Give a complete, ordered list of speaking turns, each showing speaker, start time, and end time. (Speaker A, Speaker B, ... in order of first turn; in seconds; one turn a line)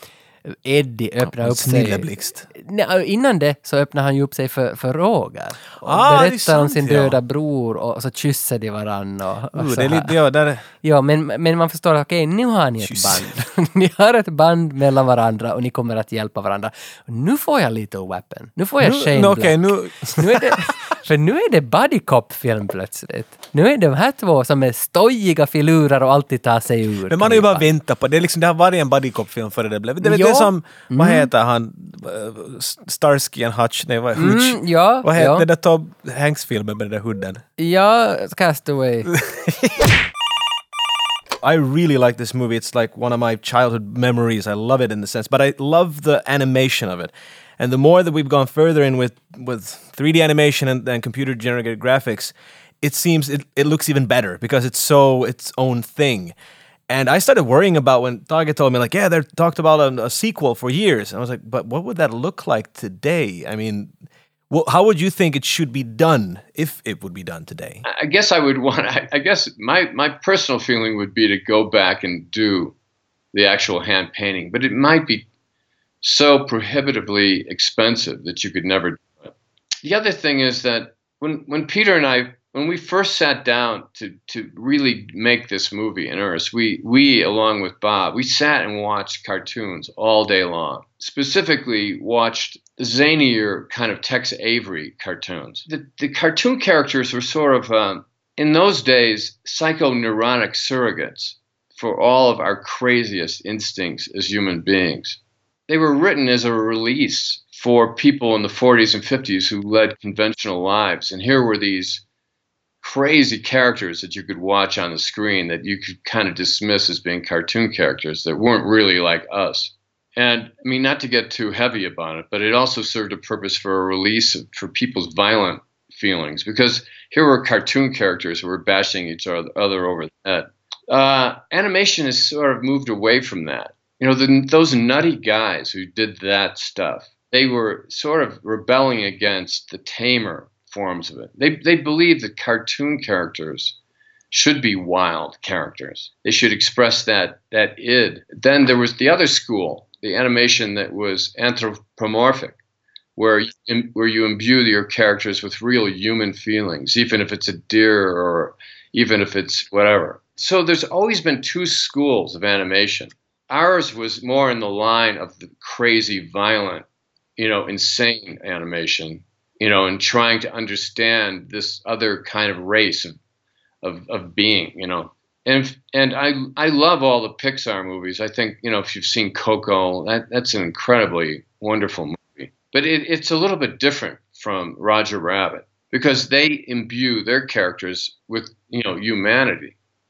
Speaker A: 0.5-10.1
Speaker B: 1.3-2.5
Speaker B: 5.8-7.2
Speaker B: 9.5-10.6
Speaker A: 10.8-19.6
Speaker B: 12.8-13.3
Speaker B: 18.8-20.7
Speaker A: 20.2-27.6
Speaker B: 27.1-37.4
Speaker A: 30.0-31.3
Speaker A: 34.1-35.5
Speaker A: 37.6-39.1
Speaker B: 39.1-39.9
Speaker B: 41.4-56.3
Speaker B: 56.9-63.9
Speaker B: 64.5-67.8
Speaker C: 67.8-72.7
Speaker C: 73.3-75.2
Speaker C: 76.0-79.3
Speaker C: 79.8-105.2
Speaker C: 105.7-112.0
Speaker C: 112.8-143.7
Speaker C: 144.3-152.6
Speaker C: 153.2-166.8
Speaker C: 167.4-173.2
Speaker C: 173.8-189.7